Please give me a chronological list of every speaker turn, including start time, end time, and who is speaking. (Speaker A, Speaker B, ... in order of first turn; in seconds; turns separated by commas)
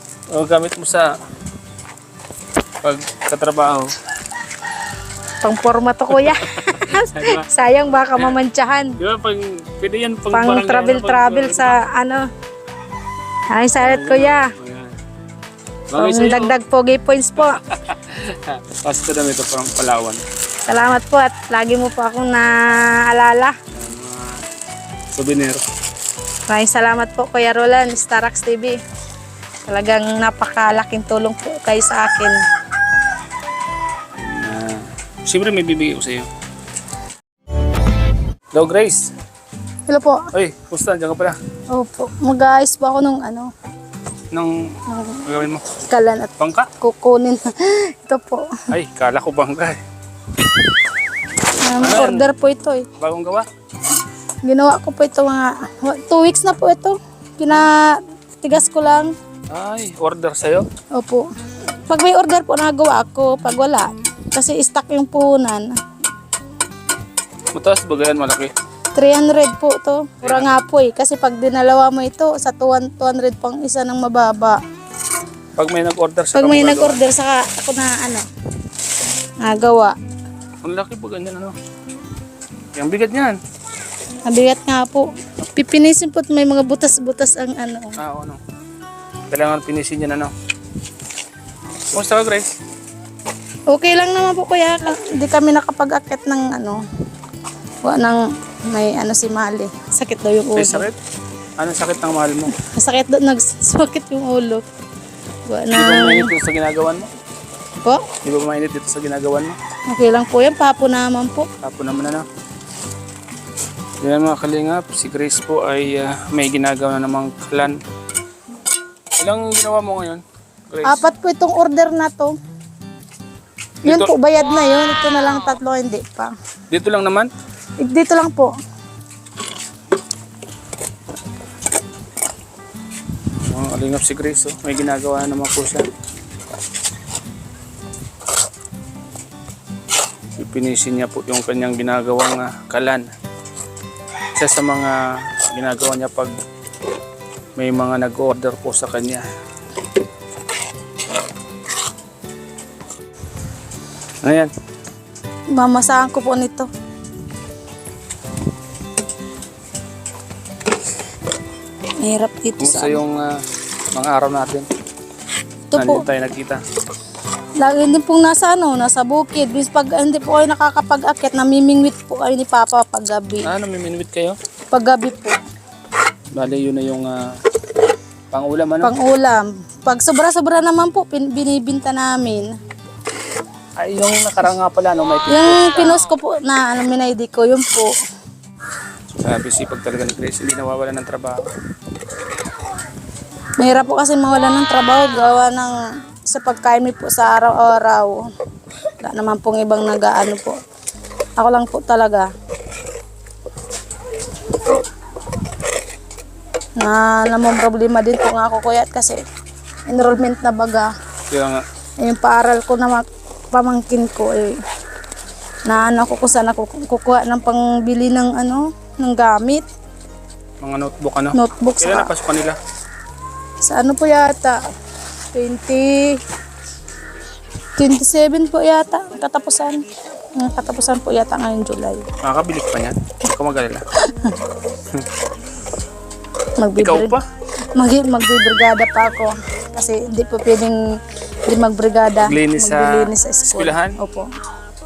Speaker A: 0.3-1.1, Speaker A: 2.8-3.9, Speaker B: 5.4-9.0, Speaker A: 6.2-7.5, Speaker A: 9.0-11.8, Speaker B: 10.3-12.3, Speaker B: 13.5-14.5, Speaker A: 13.8-14.9, Speaker A: 15.9-16.6, Speaker B: 15.9-17.6, Speaker A: 17.7-20.2, Speaker B: 20.7-23.6, Speaker A: 23.7-24.3, Speaker A: 25.1-25.6, Speaker B: 26.5-28.8, Speaker B: 29.7-32.4, Speaker A: 34.2-36.3, Speaker A: 38.5-39.1, Speaker B: 39.9-40.3, Speaker A: 40.3-41.4, Speaker B: 41.7-43.5, Speaker A: 44.3-45.8, Speaker B: 44.9-45.3, Speaker B: 45.8-48.6, Speaker A: 46.4-46.7, Speaker A: 48.7-49.8, Speaker B: 51.5-52.9, Speaker A: 51.8-52.3, Speaker A: 53.0-53.5, Speaker B: 54.4-59.1, Speaker A: 59.5-60.7, Speaker B: 60.9-61.2, Speaker B: 61.9-65.7, Speaker A: 67.5-68.5, Speaker B: 68.9-74.6, Speaker A: 70.2-70.5, Speaker A: 75.6-77.0, Speaker B: 76.3-78.2, Speaker B: 79.4-80.0, Speaker A: 80.6-81.5, Speaker A: 82.8-83.4, Speaker B: 84.2-88.0, Speaker A: 88.0-88.4, Speaker A: 89.3-90.3, Speaker A: 91.9-92.5, Speaker B: 93.7-96.8, Speaker B: 97.8-100.9, Speaker A: 100.5-101.0, Speaker A: 101.6-102.5, Speaker B: 102.5-104.6, Speaker B: 105.5-106.3, Speaker A: 105.7-107.1, Speaker A: 108.2-109.6, Speaker B: 109.9-111.5, Speaker A: 111.6-112.2, Speaker A: 114.0-117.8, Speaker A: 119.2-121.0, Speaker B: 120.8-122.4, Speaker A: 123.8-124.1, Speaker B: 123.9-126.3, Speaker A: 126.7-127.3, Speaker B: 127.8-128.5, Speaker A: 133.4-135.8, Speaker A: 140.4-143.1, Speaker A: 144.3-146.3, Speaker A: 147.6-149.2, Speaker A: 154.2-154.5, Speaker B: 155.5-156.7, Speaker B: 162.0-163.0, Speaker A: 162.6-163.4, Speaker A: 163.9-164.7, Speaker B: 165.7-166.1, Speaker A: 165.8-166.6, Speaker B: 167.6-173.5, Speaker A: 173.4-174.3, Speaker B: 174.7-175.4, Speaker A: 176.3-177.2, Speaker A: 178.3-178.9, Speaker B: 178.8-182.5, Speaker A: 183.8-186.0, Speaker B: 185.3-187.9, Speaker A: 189.2-191.5, Speaker B: 193.6-198.3, Speaker B: 199.0-200.6, Speaker B: 201.4-202.3, Speaker B: 206.8-209.2, Speaker B: 209.9-210.9, Speaker A: 211.3-211.6, Speaker B: 212.0-214.6, Speaker B: 215.7-219.7, Speaker A: 220.6-222.6, Speaker B: 221.3-222.1, Speaker B: 223.6-224.6, Speaker B: 225.3-226.2, Speaker B: 227.8-229.8, Speaker B: 230.3-232.1, Speaker A: 232.2-233.8, Speaker B: 234.0-234.5, Speaker B: 236.6-237.2, Speaker A: 236.8-237.2, Speaker B: 237.7-240.8, Speaker B: 241.5-244.3, Speaker A: 242.2-244.0